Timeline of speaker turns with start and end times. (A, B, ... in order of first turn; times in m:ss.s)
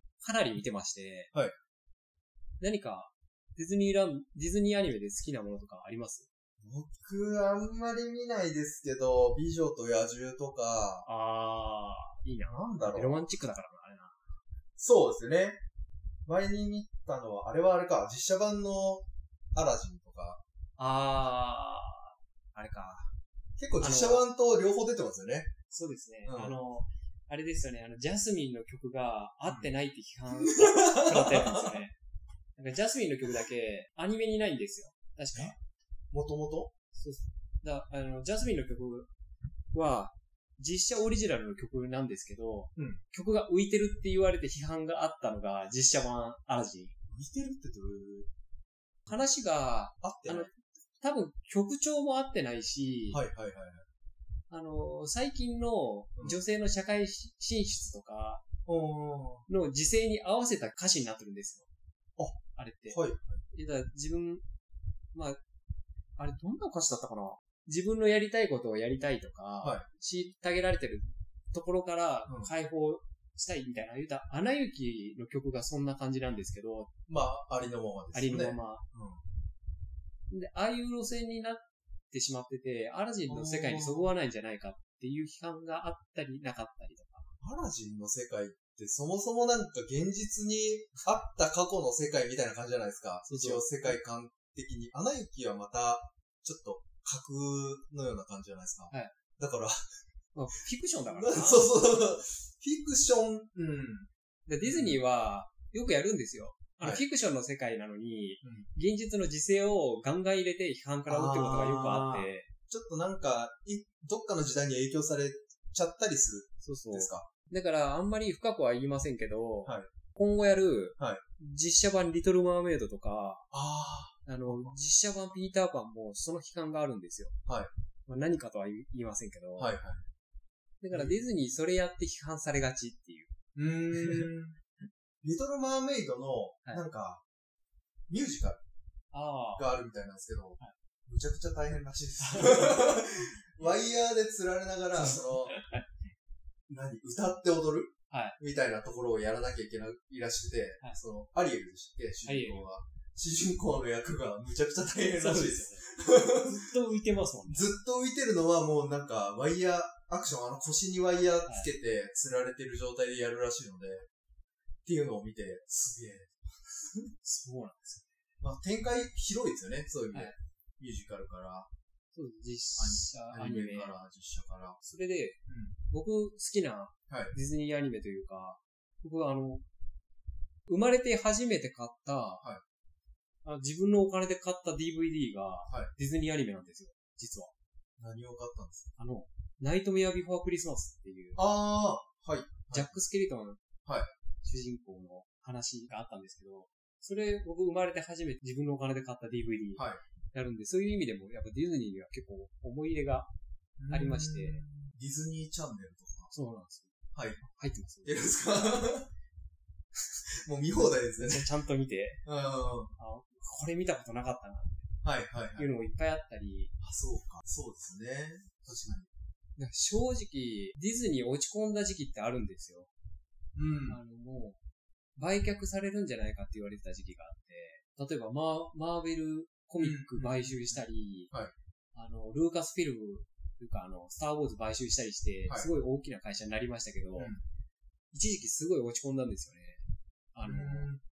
0:00.2-0:01.3 A
0:02.6-0:06.3 A
0:06.6-0:11.0 B
0:11.0-0:14.2 A
0:12.4-0:13.2 B
0:14.8-0:15.6 B
0:16.2-0:20.4 B
0:20.8-0:23.1 A
0:23.6-0:25.5 B
0:23.8-0:24.2 A
0:25.7-0:31.9 A
0:26.2-0:26.6 B
0:30.4-0:31.7 B
0:32.6-0:35.6 A
0:36.1-0:36.7 B
0:36.9-0:39.1 A
0:39.7-0:46.9 A
0:47.1-0:48.3 B
0:49.1-0:50.5 A
0:50.0-0:50.5 B
0:51.0-0:53.2 A
0:53.1-0:53.8 B
0:54.5-0:58.4 A
0:58.6-0:59.5 B
0:59.5-1:01.7 A
1:02.5-1:03.0 A
1:02.9-1:03.4 B
1:03.5-1:04.4 A
1:06.2-1:16.9 A
1:17.1-1:19.2 B
1:18.1-1:18.8 A
1:20.3-1:27.3 A
1:23.3-1:24.1 B
1:27.4-1:39.8 B
1:33.2-1:34.0 A
1:40.3-1:41.7 A
1:41.0-1:44.1 B
1:44.5-1:52.5 A
1:44.6-1:45.0 B
1:48.4-1:48.7 B
1:51.1-1:57.3 B
1:56.6-2:03.4 A
1:59.6-1:59.9 B
2:03.5-2:04.8 B
2:04.2-2:07.4 A
2:08.1-2:09.8 A
2:09.6-2:10.0 B
2:10.8-2:13.3 A
2:10.9-2:11.2 B
2:13.5-2:14.5 B
2:14.0-2:14.3 A
2:15.2-2:17.2 B
2:18.1-2:18.6 B
2:19.1-2:19.7 A
2:19.6-2:25.6 B
2:22.2-2:23.0 A
2:25.0-2:25.9 A
2:26.7-2:36.7 B
2:28.1-2:28.4 A
2:32.2-2:32.6 A
2:35.0-2:37.7 A
2:37.5-2:44.0 B
2:41.4-2:41.7 A
2:44.8-2:47.1 B
2:47.2-2:48.0 A
2:48.4-2:51.7 B
2:52.1-2:53.9 A
2:52.8-2:54.8 B
2:54.8-2:55.4 A
2:55.5-2:55.7 B
2:55.9-2:59.6 A
2:57.1-2:57.3 B
3:00.7-3:02.4 A
3:03.4-3:07.5 A
3:08.0-3:08.9 B
3:09.0-3:11.4 A
3:11.4-3:13.0 B
3:12.7-3:13.6 A
3:14.4-3:23.3 A
3:19.8-3:20.0 B
3:23.8-3:26.3 B
3:23.9-3:24.6 A
3:26.3-3:26.9 A
3:27.1-3:27.4 B
3:27.4-3:28.3 A
3:28.0-3:29.1 B
3:30.4-3:31.5 B
3:31.2-3:32.2 A
3:32.2-3:32.9 B
3:33.0-3:34.9 A
3:35.0-3:35.7 B
3:35.5-3:36.7 A
3:36.8-3:39.1 B
3:39.6-3:42.9 A
3:43.5-3:44.0 B
3:43.9-3:44.6 A
3:45.2-3:51.3 A
3:49.8-3:51.5 B
3:51.9-3:57.3 A
3:57.2-3:57.4 B
3:58.1-3:59.8 A
4:00.3-4:00.9 A
4:00.4-4:01.0 B